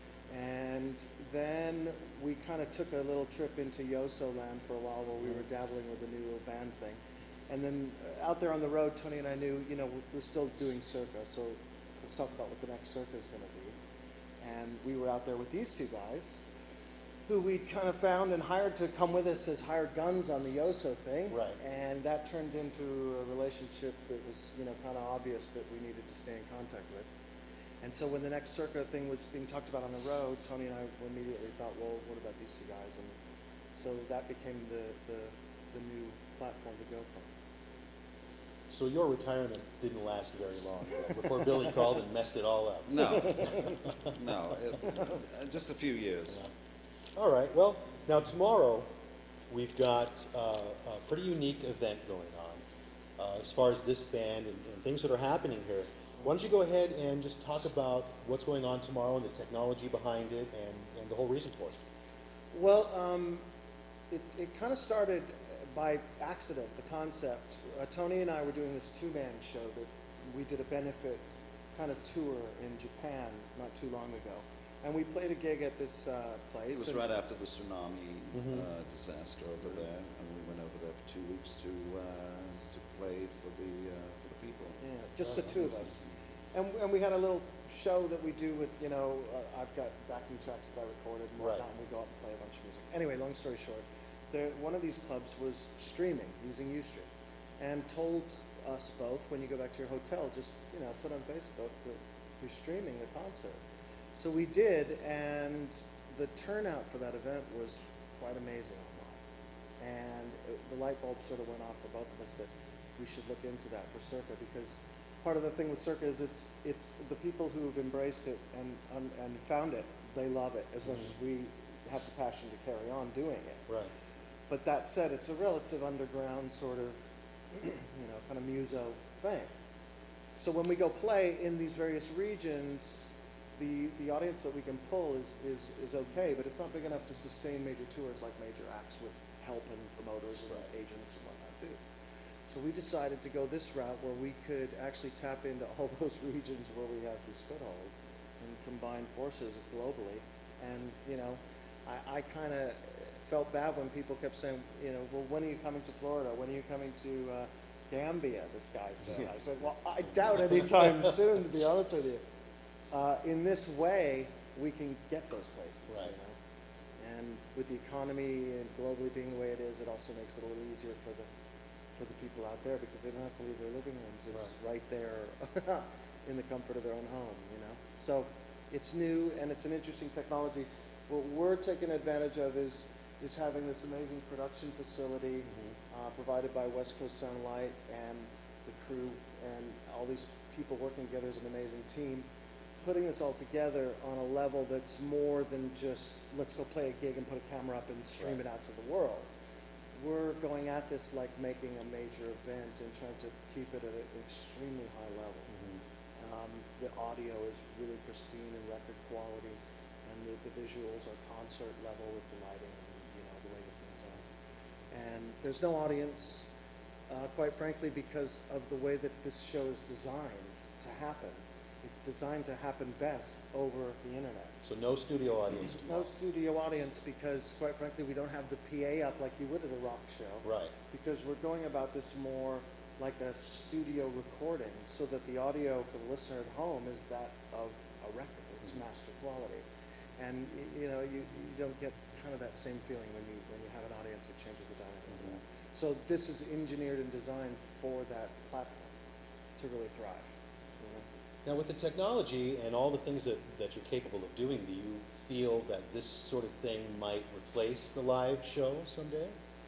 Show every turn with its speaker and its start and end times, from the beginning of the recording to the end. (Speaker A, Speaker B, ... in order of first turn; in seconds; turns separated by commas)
Speaker A: 0.3-13.8, Speaker A: 14.4-16.4, Speaker A: 17.3-27.1, Speaker B: 21.3-21.6, Speaker A: 27.8-33.2, Speaker A: 33.7-37.3, Speaker B: 38.7-43.6, Speaker C: 42.9-46.5, Speaker A: 43.2-43.8, Speaker B: 47.2-48.9, Speaker B: 49.5-52.6, Speaker B: 53.2-61.8, Speaker A: 56.2-56.5, Speaker A: 62.5-63.5, Speaker A: 64.1-77.0, Speaker C: 76.7-86.0, Speaker B: 78.3-78.7, Speaker A: 84.8-86.0, Speaker B: 85.2-85.5, Speaker A: 86.5-97.1, Speaker A: 97.6-103.6, Speaker A: 104.1-109.2, Speaker A: 109.8-123.6, Speaker B: 120.8-121.1, Speaker A: 124.5-129.5, Speaker A: 130.4-141.8, Speaker A: 142.4-162.2, Speaker A: 162.9-166.3, Speaker A: 167.0-171.3, Speaker A: 171.9-192.3, Speaker B: 185.4-185.8, Speaker A: 192.8-199.3, Speaker A: 199.9-205.5, Speaker B: 205.5-205.8, Speaker A: 206.2-214.2, Speaker A: 214.9-216.5, Speaker A: 217.1-224.5, Speaker B: 224.6-226.1, Speaker A: 225.8-239.7, Speaker B: 230.4-230.7, Speaker A: 240.2-248.9, Speaker A: 249.6-251.1, Speaker B: 251.5-259.4